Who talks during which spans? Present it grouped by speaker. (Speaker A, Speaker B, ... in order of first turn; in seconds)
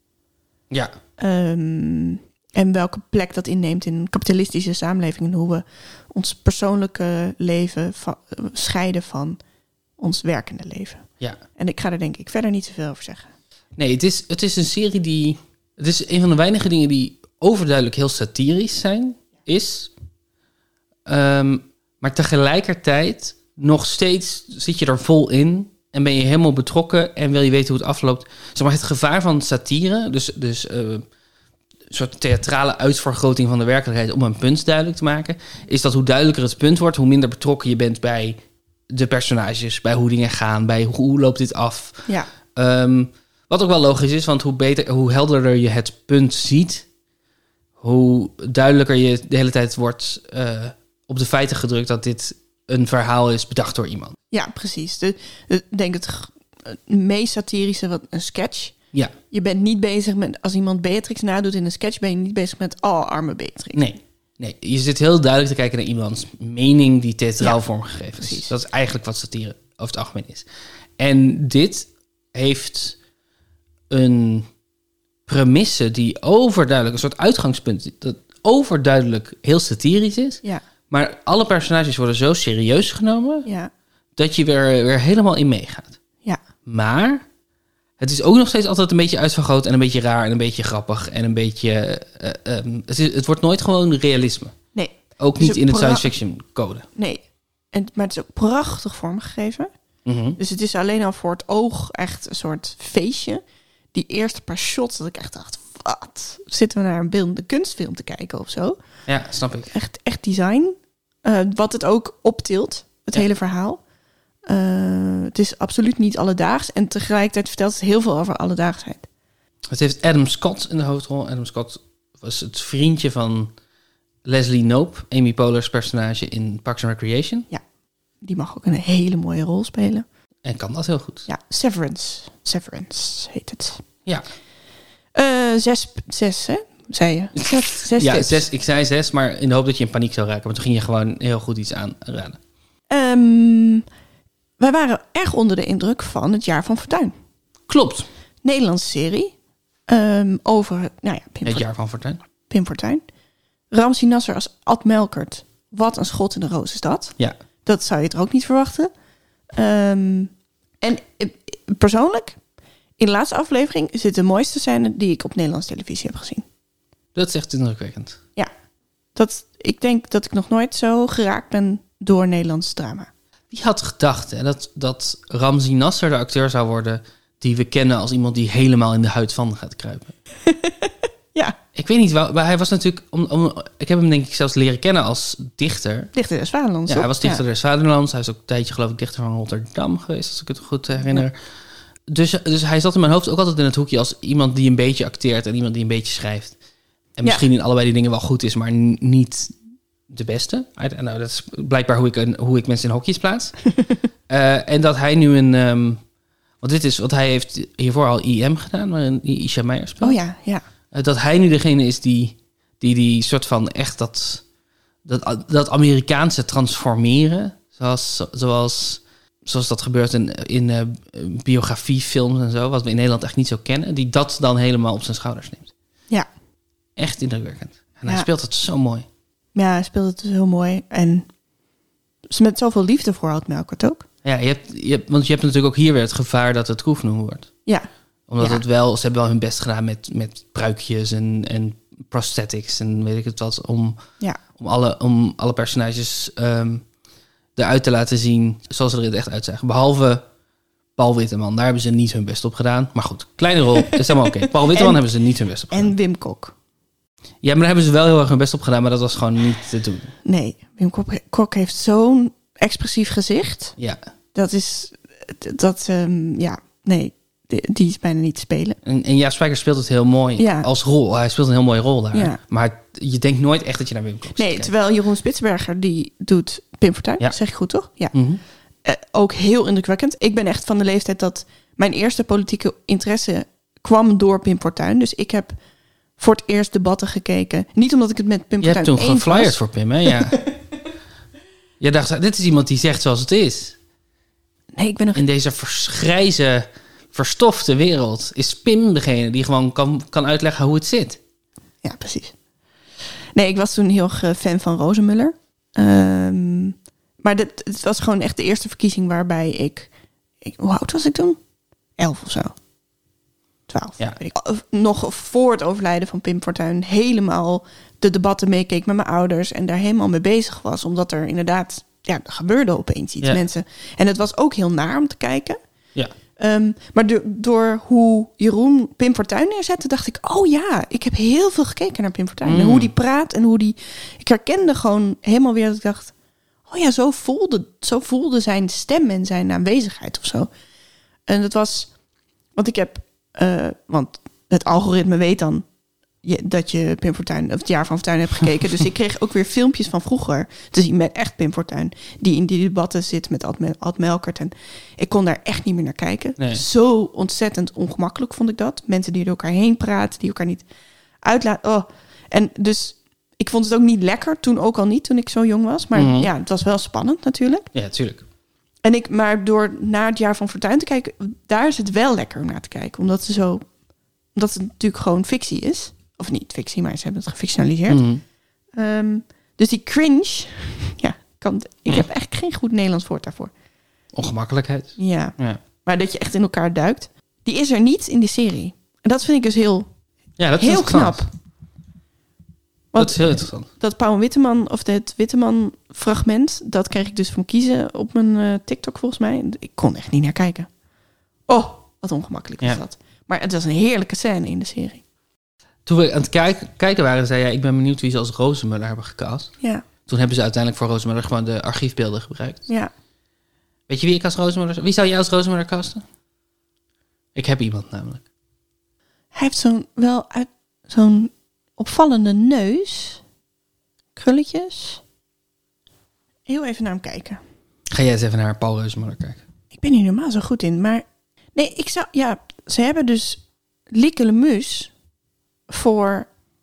Speaker A: 0.7-0.9, 13.8-19.9, 21.1-31.0, 31.9-38.4, 38.9-46.9, 47.8-54.1, 63.7-70.5, 71.0-73.0, 73.9-74.5, 75.3-83.5, 84.2-86.0, 86.7-87.2, 88.0-94.5, 95.2-96.9, 100.0-100.4, 109.1-109.7, 119.7-123.5, 124.2-127.5, 130.4-131.3, 137.4-142.4, 147.7-148.1, 151.4-152.2, 167.1-168.2, 173.5-180.1, 181.7-186.1, 186.9-191.4, 192.1-196.6, 197.2-199.5, 200.1-203.6, 204.3-206.0, 206.6-210.2, 210.9-214.4, 215.0-225.7, 226.9-229.1, 234.2-237.5, 238.3-244.0, 244.6-246.8, 247.6-250.2, 250.9-255.9, 257.4-260.1, 268.8-274.7, 278.1-278.4, 288.6-290.4, 291.8-293.8, 295.1-301.2, 332.4-332.9, 356.4-356.6, 365.9-366.3, 367.7-368.2, 377.9-378.2, 384.1-385.6, 390.4-391.2, 392.9-393.7, 405.9-409.5, 410.1-412.7, 413.9-416.0, 417.3-418.2, 427.9-429.4
Speaker B: 1.2-9.4, 10.0-11.0, 11.6-13.3, 54.3-58.8, 59.3-63.9, 68.2-68.5, 83.5-83.7, 94.7-96.1, 97.0-99.7, 100.4-103.4, 103.9-108.8, 109.7-113.8, 114.5-119.1, 128.2-130.0, 131.2-133.8, 135.1-138.4, 142.9-143.8, 144.6-147.1, 148.4-149.3, 149.9-151.6, 152.5-153.0, 153.7-158.9, 159.5-162.4, 163.0-166.4, 169.1-173.1, 180.4-181.6, 186.1-187.4, 210.0-210.6, 229.5-231.3, 232.3-234.1, 253.8-255.0, 255.7-256.5, 260.2-263.7, 264.3-268.8, 270.4-270.7, 272.1-272.4, 274.4-278.1, 278.8-285.5, 286.2-289.6, 294.7-295.2, 301.8-302.3, 303.3-309.9, 310.4-311.4, 312.0-312.5, 313.7-325.6, 326.4-336.1, 336.7-340.5, 341.3-341.9, 342.6-345.6, 346.2-360.6, 361.2-367.7, 368.8-373.6, 374.3-378.0, 378.8-383.5, 385.0-389.9, 390.6-391.3, 392.9-400.7, 401.5-405.0, 419.3-423.2, 424.1-425.0, 426.5-427.4, 429.7-434.9, 435.7-436.3